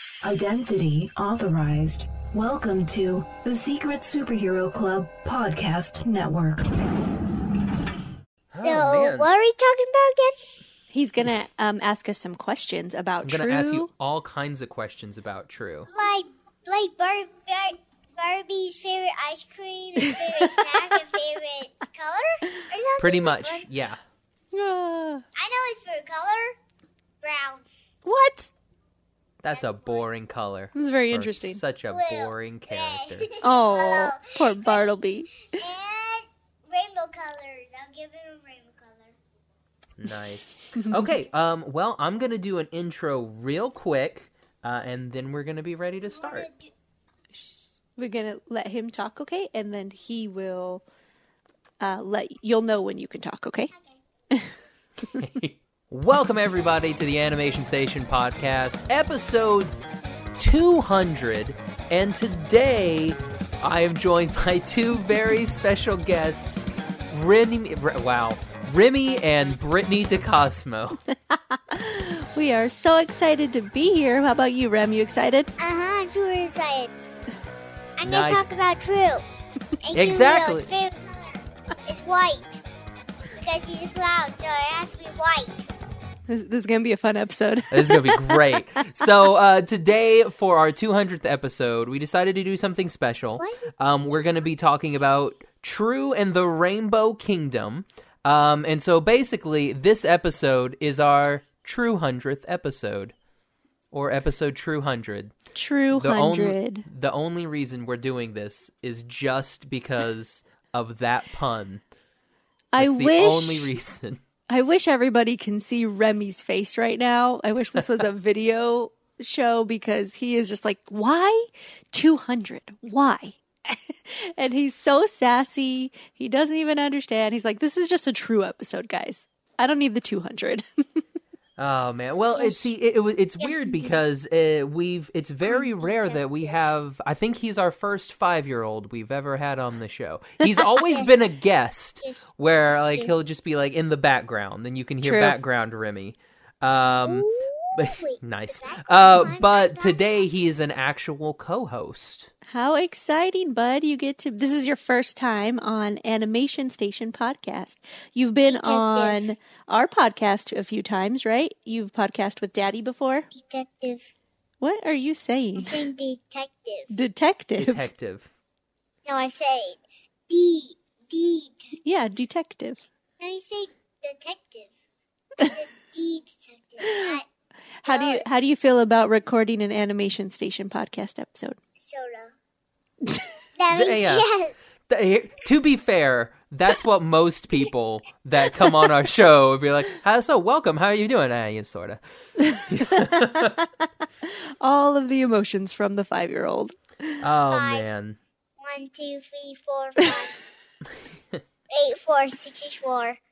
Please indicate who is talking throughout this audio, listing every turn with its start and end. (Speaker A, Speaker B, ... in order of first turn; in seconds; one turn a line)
Speaker A: 0.2-6.9
Speaker B: 8.5-9.3
Speaker C: 8.6-10.5
Speaker D: 10.9-13.9
Speaker B: 13.2-15.9
Speaker C: 15.9-23.7
Speaker D: 20.0-20.7
Speaker B: 23.0-24.0
Speaker D: 24.5-25.2
Speaker C: 25.4-26.6
Speaker C: 27.2-27.7
Speaker D: 28.0-28.5
Speaker B: 29.4-33.3
Speaker C: 29.5-30.0
Speaker D: 30.8-31.6
Speaker C: 31.9-39.2
Speaker D: 33.4-35.3
Speaker B: 40.0-46.5
Speaker C: 46.1-46.7
Speaker D: 48.0-50.8
Speaker D: 51.8-53.7
Speaker C: 53.7-54.0
Speaker B: 55.0-59.7
Speaker B: 60.4-71.0
Speaker D: 71.1-75.5
Speaker C: 75.6-76.9
Speaker C: 78.0-79.2
Speaker B: 78.0-78.5
Speaker C: 79.8-82.6
Speaker B: 79.9-80.7
Speaker C: 83.3-85.7
Speaker D: 86.3-88.6
Speaker B: 87.7-103.1
Speaker C: 93.4-93.7
Speaker B: 103.9-105.3
Speaker D: 105.5-106.9
Speaker B: 105.9-111.8
Speaker D: 112.7-113.7
Speaker B: 112.8-114.2
Speaker D: 114.5-131.0
Speaker B: 131.6-152.3
Speaker C: 133.4-134.0
Speaker C: 135.5-136.6
Speaker C: 140.9-141.2
Speaker C: 142.0-143.1
Speaker D: 145.0-145.4
Speaker C: 146.9-150.2
Speaker D: 152.5-163.3
Speaker C: 158.4-159.3
Speaker C: 163.3-164.0
Speaker D: 164.6-165.8
Speaker C: 165.6-166.9
Speaker D: 166.9-167.9
Speaker B: 167.6-168.3
Speaker C: 169.1-171.8
Speaker D: 171.8-172.8
Speaker C: 173.2-174.7
Speaker C: 175.4-177.2
Speaker D: 176.8-177.2
Speaker D: 177.8-181.6
Speaker C: 177.8-178.2
Speaker C: 181.8-182.3
Speaker C: 183.6-184.5
Speaker B: 183.7-184.2
Speaker B: 184.9-192.0
Speaker D: 192.4-193.7
Speaker B: 192.5-193.6
Speaker D: 194.2-197.2
Speaker B: 197.2-198.2
Speaker C: 197.5-197.8
Speaker C: 198.6-200.4
Speaker C: 201.7-203.2